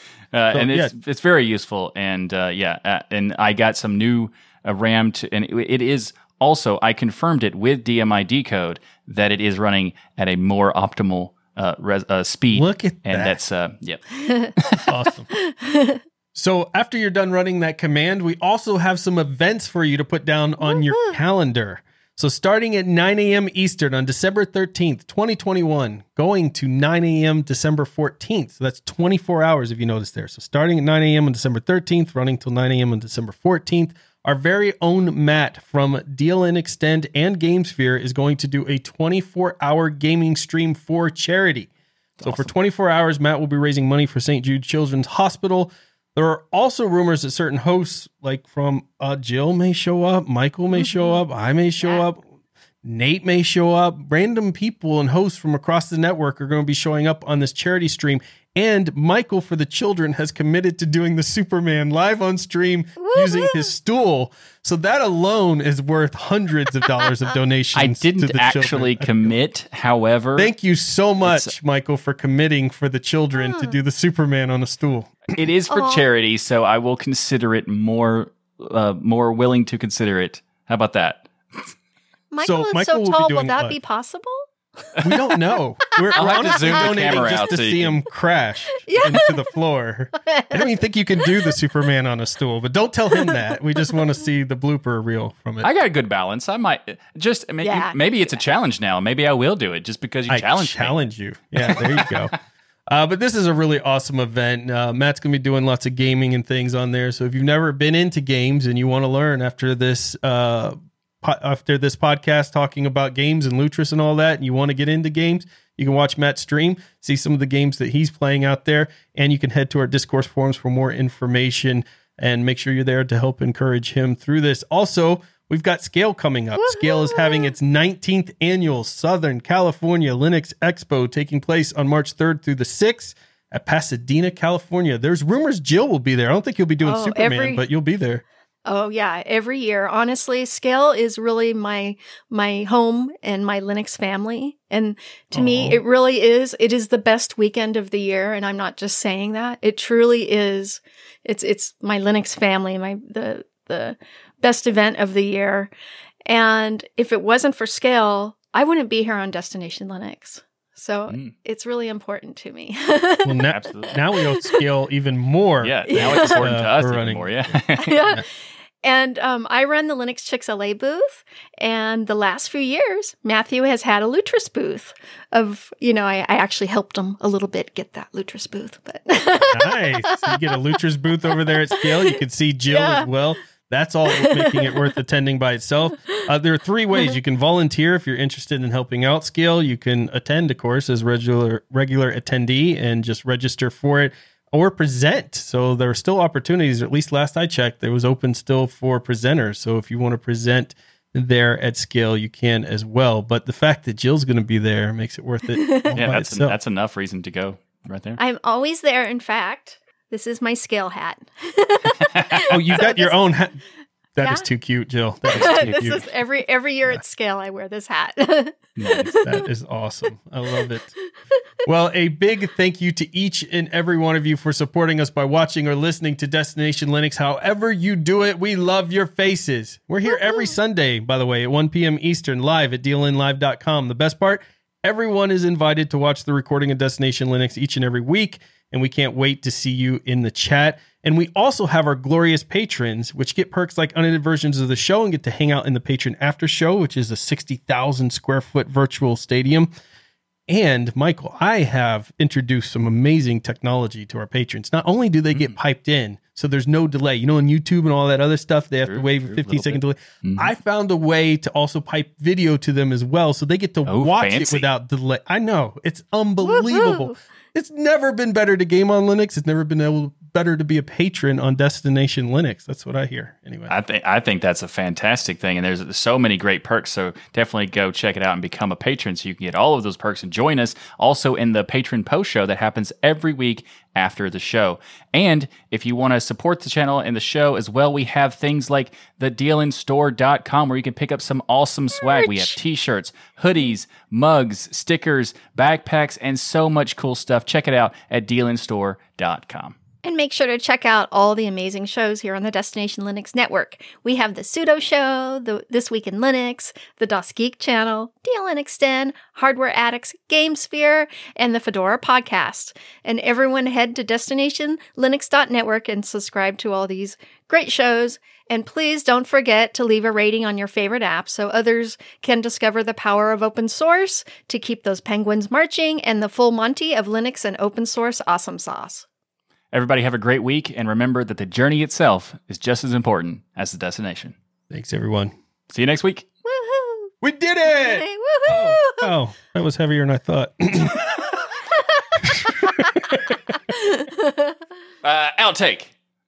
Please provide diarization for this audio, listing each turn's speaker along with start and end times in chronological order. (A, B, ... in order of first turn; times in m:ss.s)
0:00.3-0:14.0 A
0:00.5-0:00.9 B
0:12.5-0:13.4 B
0:14.2-0:14.5 C
0:14.6-0:14.9 A
0:14.9-0:15.3 B
0:15.4-0:16.0 C
0:16.4-0:41.7 B
0:20.6-0:21.2 C
0:42.2-0:42.5 A
0:42.2-0:52.2 B
0:50.8-0:51.2 C
0:52.8-1:09.3 B
1:03.0-1:03.7 C
1:07.8-1:10.5 A
1:10.4-1:15.3 B
1:11.2-1:11.5 A
1:13.4-1:13.8 C
1:15.3-1:21.7 A
1:15.7-1:16.0 C
1:22.3-1:24.5 C
1:22.4-1:23.8 B
1:25.0-1:35.7 B
1:26.2-1:27.6 C
1:26.2-1:28.0 A
1:28.9-1:29.4 C
1:30.3-1:30.7 C
1:33.2-1:34.0 C
1:35.6-1:41.0 A
1:37.6-1:38.4 C
1:40.3-2:18.2 B
1:41.6-1:42.1 A
2:06.6-2:07.5 C
2:16.8-2:17.6 C
2:18.7-2:35.7 C
2:25.4-2:25.8 B
2:36.3-2:43.6 C
2:41.1-2:41.3 A
2:43.2-2:47.3 B
2:43.5-2:44.0 A
2:44.2-2:44.5 C
2:45.6-2:48.0 A
2:45.9-2:46.6 C
2:47.8-2:48.2 C
2:48.8-3:00.4 C
2:59.5-3:26.6 B
3:02.7-3:03.1 C
3:04.1-3:04.8 C
3:25.6-3:26.0 C
3:25.9-3:28.2 A
3:28.2-3:33.2 C
3:32.1-3:32.6 A
3:32.5-3:33.6 B
3:34.2-3:36.0 B
3:35.3-3:35.8 A
3:35.3-3:39.4 C
3:38.8-3:39.2 A
3:39.2-3:41.0 B
3:41.6-4:09.7 B
3:50.1-3:50.6 C
4:10.5-4:33.7 B
4:18.9-4:20.5 A
4:23.9-4:24.7 A
4:26.4-4:27.2 C
4:33.7-4:59.8 A
4:52.0-4:52.6 C
5:00.0-5:29.1 C
5:29.7-5:34.4 A
5:34.7-5:35.3 B
5:35.7-5:36.3 A
5:36.4-5:37.1 C
5:37.2-5:41.0 B
5:37.7-5:39.1 C
5:42.2-5:42.9 C
5:42.2-5:43.1 B
5:43.7-5:44.6 C
5:45.0-5:45.9 A